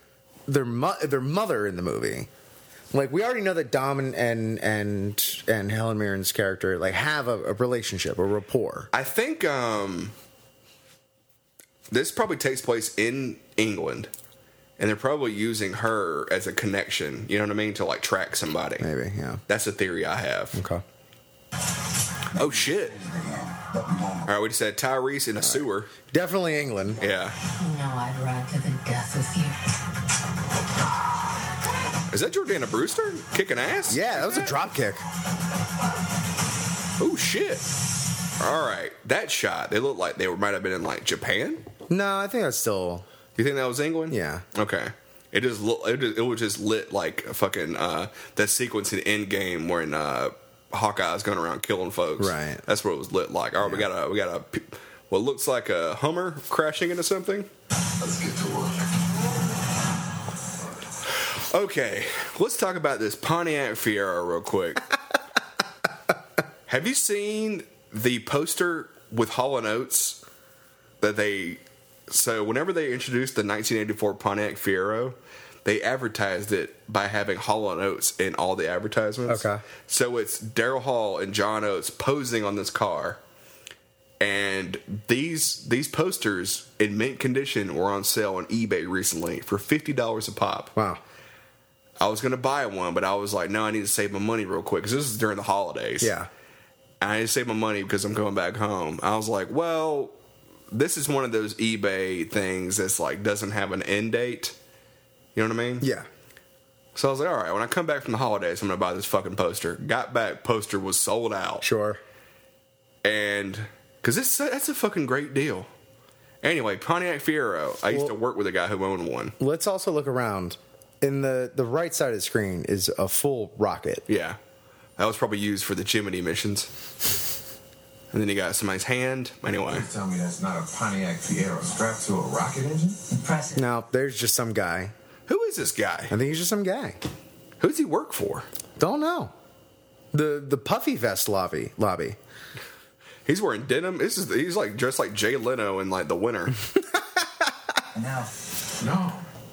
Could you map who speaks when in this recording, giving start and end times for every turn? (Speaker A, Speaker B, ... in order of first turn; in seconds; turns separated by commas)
Speaker A: 0.5-2.3, Speaker A: 2.9-8.9, Speaker B: 8.9-10.1, Speaker B: 11.9-14.1, Speaker B: 14.8-18.9, Speaker A: 18.8-19.4, Speaker B: 19.5-20.6, Speaker A: 20.6-20.8, Speaker B: 22.4-23.0, Speaker C: 22.4-24.3, Speaker B: 24.3-25.9, Speaker A: 25.4-27.0, Speaker B: 27.0-27.4, Speaker D: 27.6-29.6, Speaker B: 32.1-34.6, Speaker A: 33.9-35.0, Speaker B: 37.0-37.6, Speaker B: 38.4-41.6, Speaker A: 41.9-43.1, Speaker B: 43.4-57.5, Speaker A: 44.1-44.4, Speaker A: 52.2-52.6, Speaker C: 58.0-58.9, Speaker B: 61.1-64.8, Speaker B: 66.7-70.2, Speaker B: 71.0-83.2, Speaker A: 79.3-79.6, Speaker B: 84.2-90.7, Speaker A: 90.8-91.0, Speaker B: 92.0-96.1, Speaker A: 96.0-96.3, Speaker B: 97.0-100.2, Speaker B: 100.7-104.6, Speaker B: 105.3-105.9, Speaker A: 105.8-106.1, Speaker B: 107.0-111.7, Speaker A: 111.6-112.0, Speaker B: 113.0-115.7, Speaker B: 116.4-119.3, Speaker A: 119.4-124.1, Speaker B: 124.1-124.4, Speaker B: 125.0-126.7, Speaker B: 128.1-129.9, Speaker C: 129.7-133.1, Speaker D: 133.1-133.6, Speaker A: 133.6-134.9, Speaker B: 135.3-136.2, Speaker A: 136.1-137.0, Speaker B: 137.6-138.5, Speaker A: 138.8-139.3, Speaker A: 140.1-142.2, Speaker B: 143.3-146.6, Speaker D: 148.0-148.3, Speaker C: 148.8-149.2